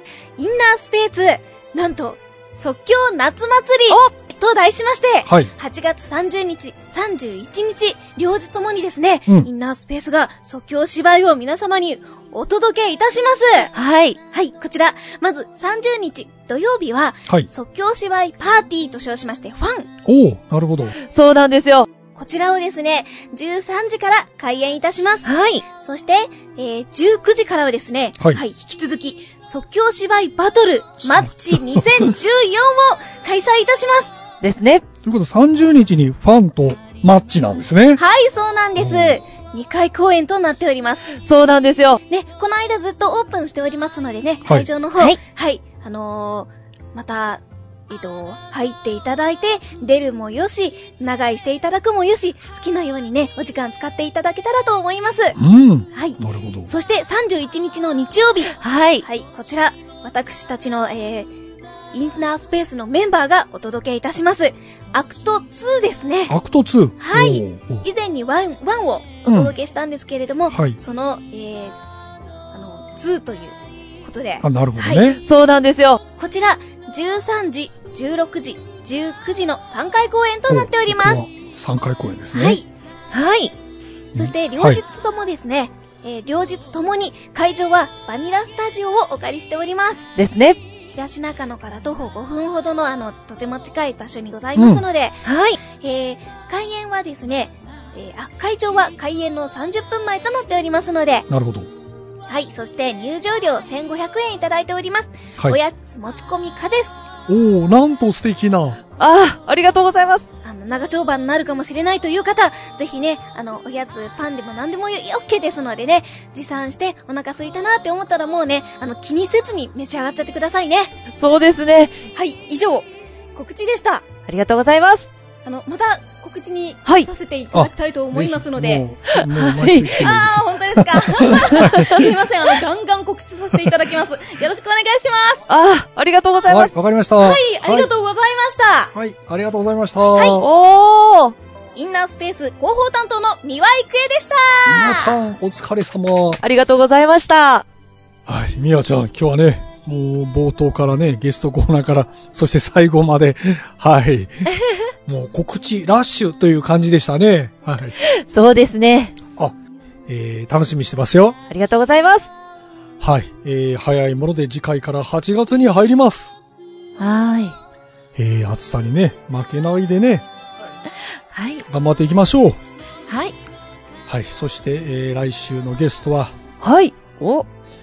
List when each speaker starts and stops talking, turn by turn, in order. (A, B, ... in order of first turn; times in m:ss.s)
0:00.4-0:13.7 A
0:05.2-0:05.5 B
0:13.7-0:14.2 C
0:14.3-0:19.9 A
0:20.0-0:21.0 B
0:21.0-0:21.9 C
0:22.1-0:34.2 A
0:25.2-0:25.6 C
0:31.1-0:32.1 B
0:34.4-0:34.8 C
0:35.0-0:38.0 B
0:38.0-0:41.1 A
0:38.8-0:39.2 B
0:41.2-0:42.0 C
0:42.1-0:55.4 A
0:55.4-0:56.7 B
0:55.9-1:01.3 A
0:58.5-0:59.0 C
1:01.9-1:06.3 A
1:06.3-1:07.9 B
1:07.0-1:11.8 A
1:09.2-1:09.5 B
1:10.5-1:10.8 B
1:12.5-1:15.1 A
1:14.4-1:15.2 B
1:15.2-1:16.0 C
1:16.2-1:21.2 A
1:20.5-1:22.6 B
1:22.3-1:22.7 A
1:23.1-1:23.5 C
1:24.1-1:24.8 B
1:24.2-1:30.1 A
1:30.2-1:30.6 C
1:30.9-1:41.3 A
1:34.5-1:34.8 B
1:35.2-1:35.6 C
1:41.3-1:41.7 B
1:42.3-1:47.0 A
1:47.3-1:48.8 B
1:49.0-1:50.3 C
1:50.4-2:00.9 A
2:01.2-2:02.0 C
2:02.2-2:04.1 A
2:04.3-2:05.1 C
2:05.4-2:08.9 A
2:07.5-2:12.1 B
2:09.1-2:10.0 C
2:10.0-2:15.5 A
2:11.3-2:11.9 C
2:15.5-2:16.7 C
2:16.5-2:17.9 B
2:17.2-2:18.9 A
2:18.9-2:20.5 B
2:20.1-2:20.4 A
2:20.4-2:21.3 C
2:21.8-2:25.2 A
2:24.7-2:26.4 B
2:26.4-2:27.6 C
2:28.3-2:34.5 B
2:35.0-2:38.0 B
2:38.0-2:39.2 C
2:40.1-2:41.4 B
2:41.5-2:42.3 C
2:43.0-2:46.3 B
2:47.0-2:47.6 C
2:48.2-2:50.2 B
2:51.3-2:51.6 C
2:51.7-2:52.6 B
2:53.1-2:53.3 C
2:54.1-2:56.3 B
2:56.6-2:57.5 C